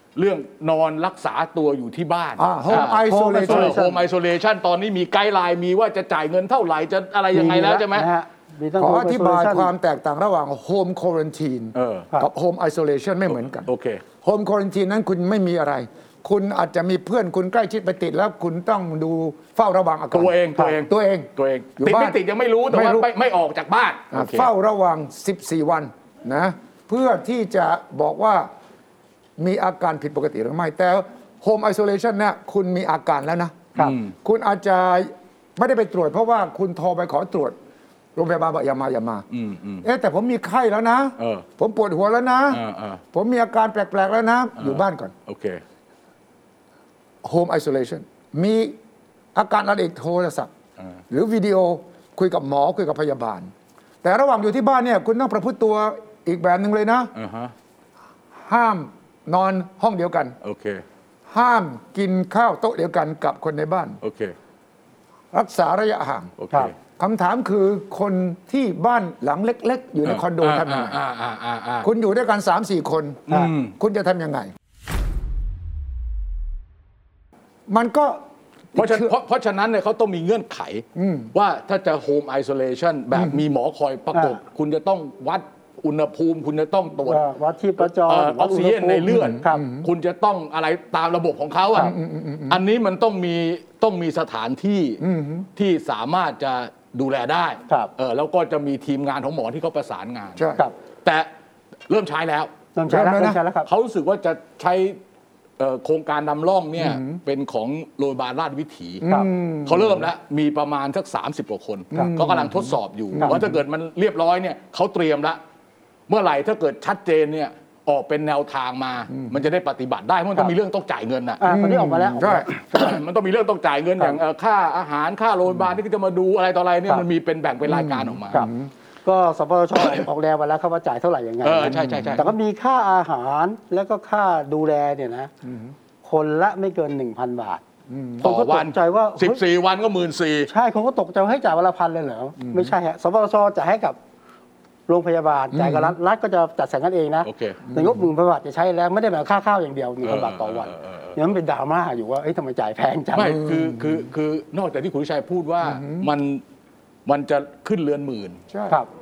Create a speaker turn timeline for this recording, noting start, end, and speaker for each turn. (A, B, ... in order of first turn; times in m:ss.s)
0:00.2-0:08.1 A
0:02.4-0:03.8 B
0:02.7-0:04.0 C
0:07.3-0:09.7 C
0:08.8-0:13.7 B
0:11.7-0:12.1 A
0:13.6-0:14.0 A
0:14.2-0:23.1 B
0:20.1-0:24.5 A
0:24.1-0:28.5 B
0:29.4-0:33.7 B
0:33.8-0:34.1 A
0:34.2-0:37.6 B
0:38.2-0:39.2 B
0:39.3-0:39.8 A
0:39.8-0:42.6 B
0:41.2-0:41.5 A
0:42.5-0:43.0 A
0:43.1-0:45.1 B
0:44.6-0:45.6 A
0:47.2-0:48.8 B
0:49.3-0:50.5 B
0:51.1-0:57.1 B
0:57.1-0:57.5 A
0:58.4-1:00.4 B
1:00.4-1:00.8 A
1:01.3-1:04.0 B
1:04.0-1:04.3 A
1:05.3-1:06.3 B
1:06.4-1:06.7 A
1:07.0-1:11.0 B
1:10.0-1:11.9 A
1:11.8-1:14.5 B
1:13.3-1:13.7 A
1:17.7-1:18.2 B
1:18.7-1:19.1 B
1:18.7-1:27.2 A
1:21.0-1:21.3 B
1:23.1-1:23.4 B
1:24.1-1:24.4 C
1:27.0-1:29.6 C
1:27.8-1:32.0 A
1:29.1-1:29.9 B
1:31.8-1:32.6 B
1:32.5-1:35.0 A
1:35.0-1:35.5 B
1:35.6-1:40.4 A
1:40.4-1:40.6 B
1:41.9-1:42.5 A
1:42.7-1:43.7 C
1:42.9-1:43.4 B
1:43.6-1:45.0 A
1:45.6-1:49.0 A
1:46.8-1:47.2 B
1:49.0-1:50.1 B
1:49.6-1:55.4 A
1:51.9-1:53.5 B
1:56.1-2:01.4 A
2:01.4-2:02.9 C
2:01.4-2:02.5 B
2:02.7-2:08.4 A
2:07.7-2:08.7 B
2:09.0-2:15.3 C
2:11.4-2:12.3 A
2:11.6-2:12.2 B
2:15.4-2:15.7 B
2:16.0-2:17.6 C
2:17.9-2:18.2 B
2:18.2-2:20.5 A
2:18.2-2:19.4 C
2:20.5-2:24.0 C
2:22.4-2:22.7 B
2:24.9-2:33.4 C
2:25.5-2:25.9 B
2:27.2-2:27.6 A
2:27.6-2:28.0 B
2:30.0-2:31.2 A
2:33.1-2:36.4 A
2:33.2-2:34.1 B
2:35.6-2:36.1 B
2:37.0-2:38.4 A
2:38.5-2:38.8 B